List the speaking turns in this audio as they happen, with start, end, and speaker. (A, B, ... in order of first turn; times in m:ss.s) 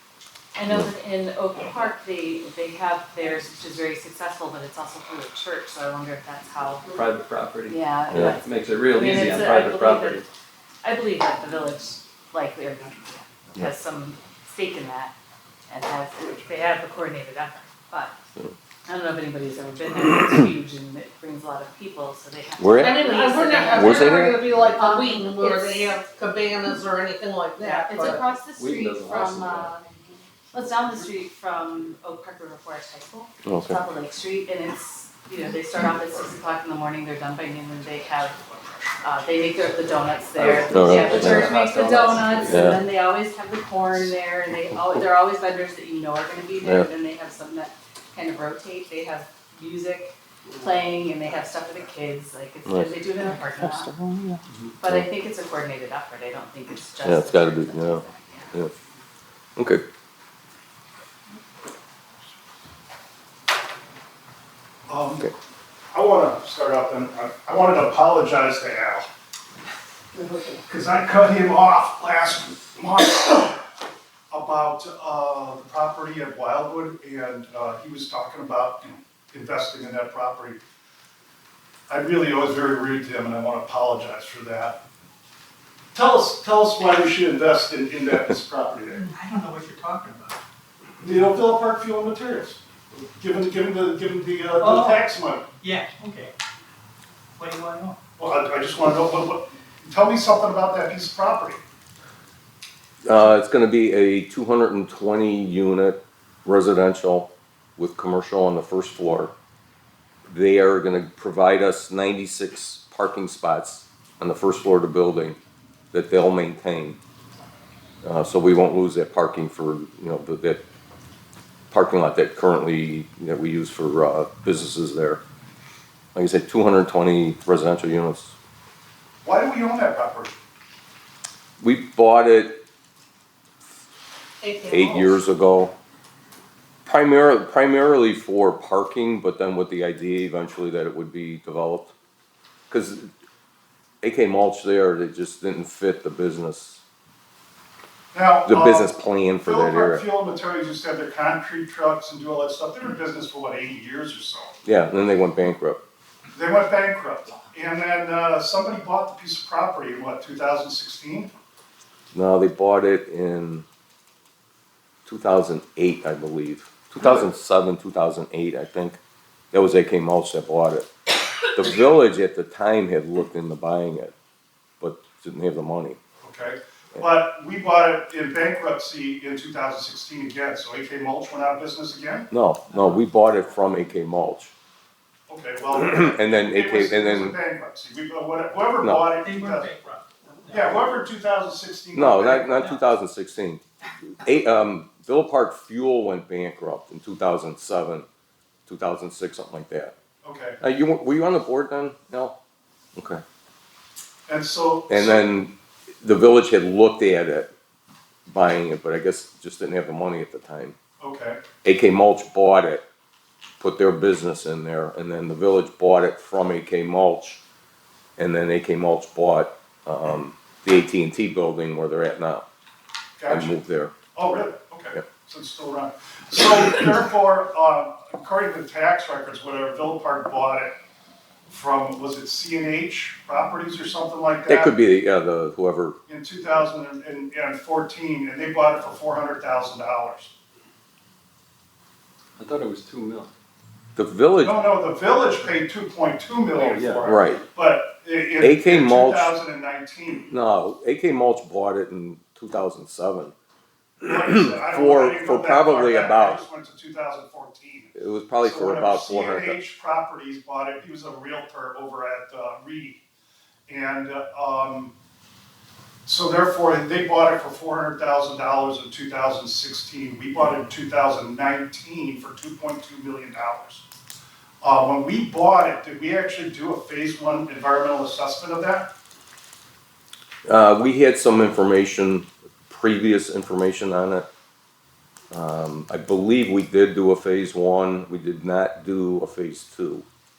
0:00.5-0:06.9 A
0:06.9-0:10.2 B
0:07.7-0:10.2 A
0:08.1-0:08.4 C
0:10.8-0:15.1 A
0:15.7-0:18.2 A
0:18.8-0:26.0 A
0:22.6-0:24.4 C
0:22.8-0:28.2 D
0:27.6-0:29.9 A
0:28.6-0:29.7 B
0:30.5-0:38.4 A
0:33.4-0:33.8 C
0:39.0-0:53.9 A
0:40.4-0:42.8 B
0:40.7-0:41.5 C
0:42.4-0:42.8 C
0:46.6-0:46.9 C
0:52.6-0:53.0 C
0:53.6-0:55.1 C
0:54.8-0:58.6 A
0:57.0-0:58.7 C
0:59.6-0:59.8 C
1:04.9-1:05.3 E
1:05.9-1:09.1 E
1:10.6-1:13.6 E
1:14.3-1:20.6 E
1:21.9-1:24.8 E
1:25.9-1:29.1 E
1:28.9-1:30.4 F
1:31.0-1:35.5 E
1:34.6-1:35.0 F
1:35.6-1:36.3 F
1:37.4-1:38.0 F
1:38.2-1:41.6 E
1:43.0-1:49.3 C
1:50.2-1:55.4 C
1:55.9-1:57.0 C
1:58.0-2:00.6 C
2:01.7-2:05.2 C
2:06.1-2:08.4 C
2:09.2-2:10.4 E
2:11.6-2:12.6 C
2:14.4-2:15.2 D
2:14.7-2:15.7 C
2:16.8-2:21.9 C
2:22.7-2:23.1 C
2:24.0-2:26.8 C
2:28.1-2:34.6 E
2:28.4-2:30.0 C
2:34.6-2:35.8 C
2:36.3-2:41.3 E
2:42.1-2:43.6 C
2:45.0-2:49.0 C
2:49.5-2:50.9 C
2:51.4-2:54.1 C
2:54.8-2:56.0 C
2:56.2-3:02.3 E
3:02.3-3:04.5 C
3:05.3-3:09.7 E
3:05.7-3:07.4 C
3:08.8-3:09.1 C
3:09.2-3:10.8 F
3:10.5-3:12.7 E
3:11.9-3:13.6 C
3:14.2-3:18.0 C
3:18.7-3:19.9 C
3:20.2-3:20.6 E
3:20.6-3:22.3 C
3:23.0-3:23.2 C
3:24.3-3:25.3 E
3:24.9-3:27.5 C
3:28.3-3:30.8 C
3:31.0-3:31.4 E
3:31.6-3:32.8 C
3:33.6-3:37.4 C
3:38.2-3:42.4 C
3:43.2-3:43.6 E
3:43.3-3:43.9 C
3:44.1-3:50.7 E
3:51.5-3:54.7 E
3:54.5-3:56.0 C
3:56.1-4:00.3 E
4:02.4-4:03.3 B
4:04.0-4:04.6 C
4:04.4-4:10.3 E
4:06.6-4:07.1 B
4:07.0-4:07.4 C
4:08.4-4:09.3 C
4:10.3-4:13.3 C
4:14.0-4:23.0 E
4:14.0-4:16.4 C
4:18.0-4:19.6 C
4:23.7-4:24.9 E
4:26.0-4:33.8 E
4:34.6-4:38.9 E
4:40.4-4:44.3 C
4:45.3-4:50.0 C